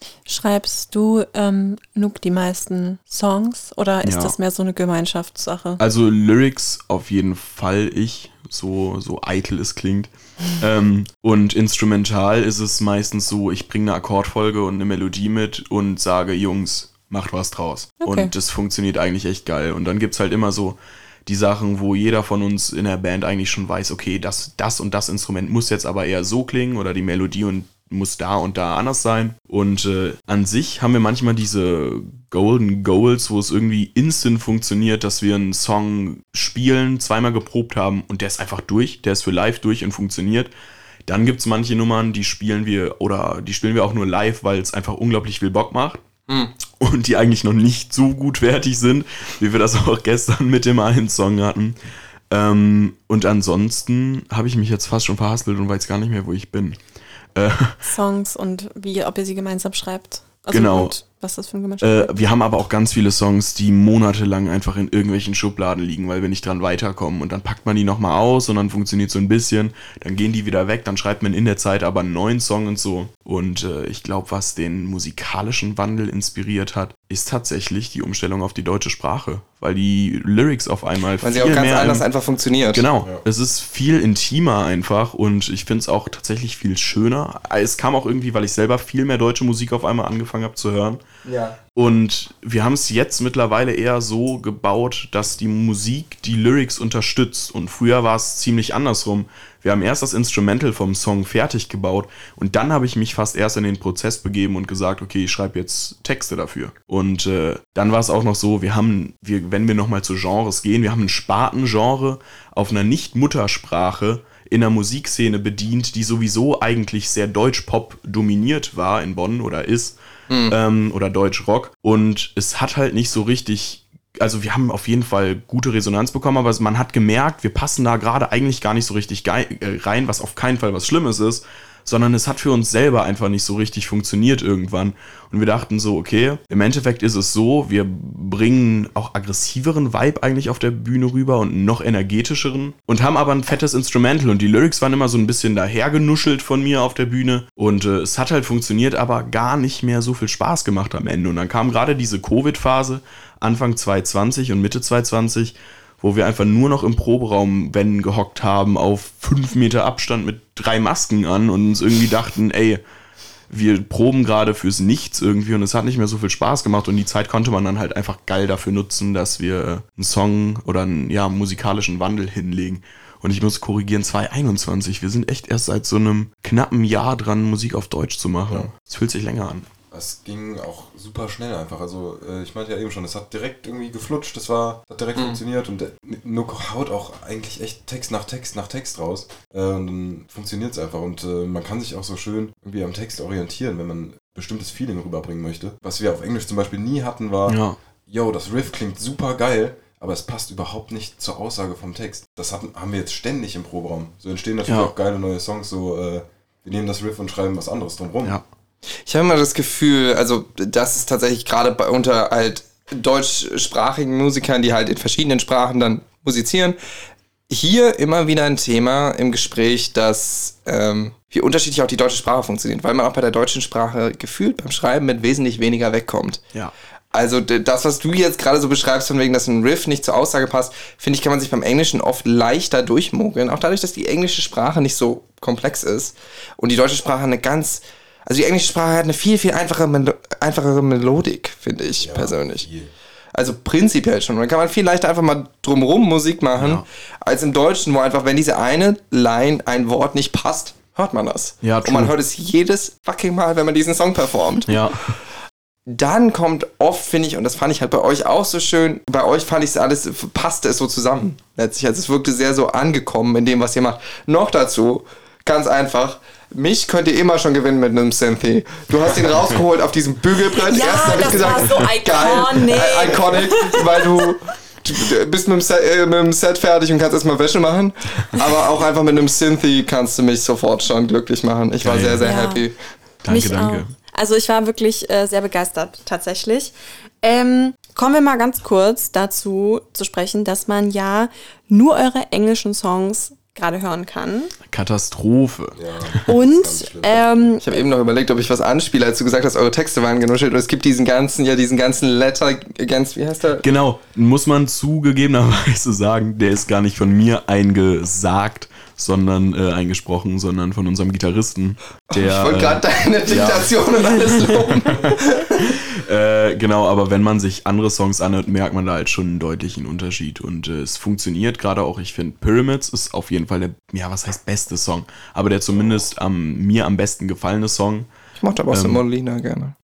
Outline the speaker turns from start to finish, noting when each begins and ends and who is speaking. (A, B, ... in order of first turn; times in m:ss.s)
0:00.3-0:05.8 A
0:04.0-0:04.3 B
0:05.8-0:40.5 B
0:18.0-0:18.3 A
0:41.1-0:46.0 B
0:46.3-0:46.5 C
0:46.8-0:51.8 B
0:52.3-0:56.8 B
0:57.3-0:57.8 B
0:57.8-1:02.2 A
1:00.5-1:01.0 B
1:01.8-1:22.0 B
1:21.2-1:22.8 C
1:22.7-1:31.0 B
1:31.2-1:31.6 C
1:31.7-2:00.0 B
2:00.3-2:00.6 C
2:00.5-2:42.8 B
2:43.5-2:59.7 B
2:59.9-3:28.4 D
3:17.5-3:17.8 B
3:24.7-3:24.9 B
3:29.0-3:36.8 C
3:37.5-3:46.4 C
3:47.1-4:02.6 C
4:02.0-4:02.9 D
4:03.3-4:15.1 C
4:06.6-4:06.8 B
4:11.6-4:12.1 B
4:14.7-4:15.2 B
4:15.9-4:42.7 C
4:30.6-4:34.0 A
4:41.8-4:42.3 B
4:42.2-4:42.6 A
4:43.2-4:43.9 B
4:43.3-4:54.5 A
4:54.7-4:56.2 B
4:55.7-4:57.4 D
4:56.2-4:57.8 A
4:57.6-5:03.6 C
5:03.6-5:28.1 B
5:12.1-5:15.8 C
5:28.4-5:29.7 C
5:28.7-5:29.0 B